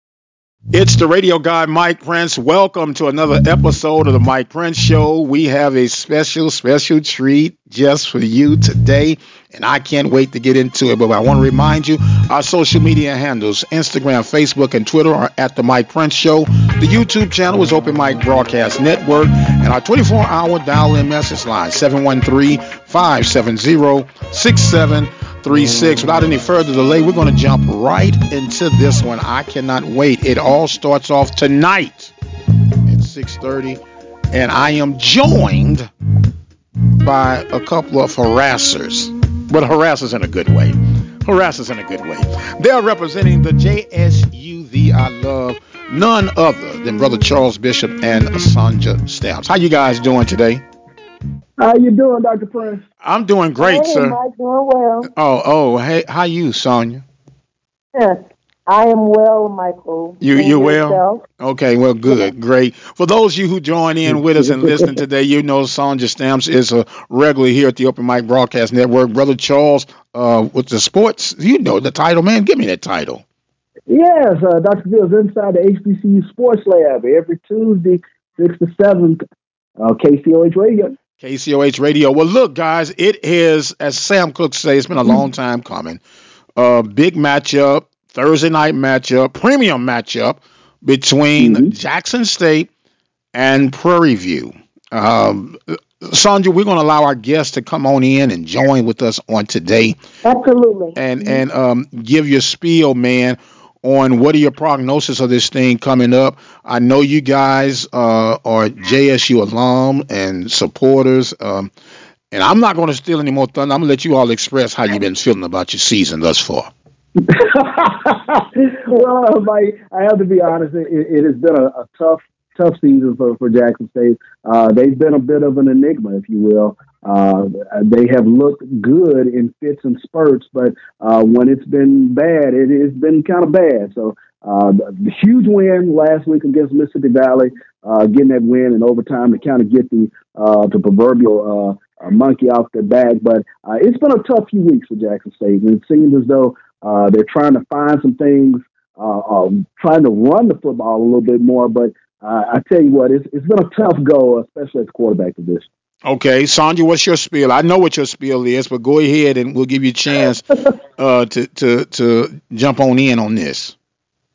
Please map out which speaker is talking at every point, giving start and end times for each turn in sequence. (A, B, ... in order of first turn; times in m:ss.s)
0:00.7-0:32.1 A
0:32.8-0:33.8 A
0:34.3-0:35.9 A
0:37.0-0:50.6 A
0:51.6-0:52.8 B
0:53.0-0:54.2 A
0:53.6-0:55.1 C
0:55.2-0:57.0 A
0:57.9-1:01.2 C
1:00.2-1:13.2 A
1:04.1-1:05.0 B
1:13.9-1:19.2 B
1:19.8-1:21.0 B
1:21.2-1:26.0 A
1:26.6-1:32.7 A
1:31.4-1:31.7 B
1:33.3-1:40.0 A
1:40.2-1:41.4 C
1:41.0-1:51.7 A
1:52.3-1:56.7 A
1:57.2-2:35.7 B
2:36.0-2:40.4 A
2:41.0-2:43.8 A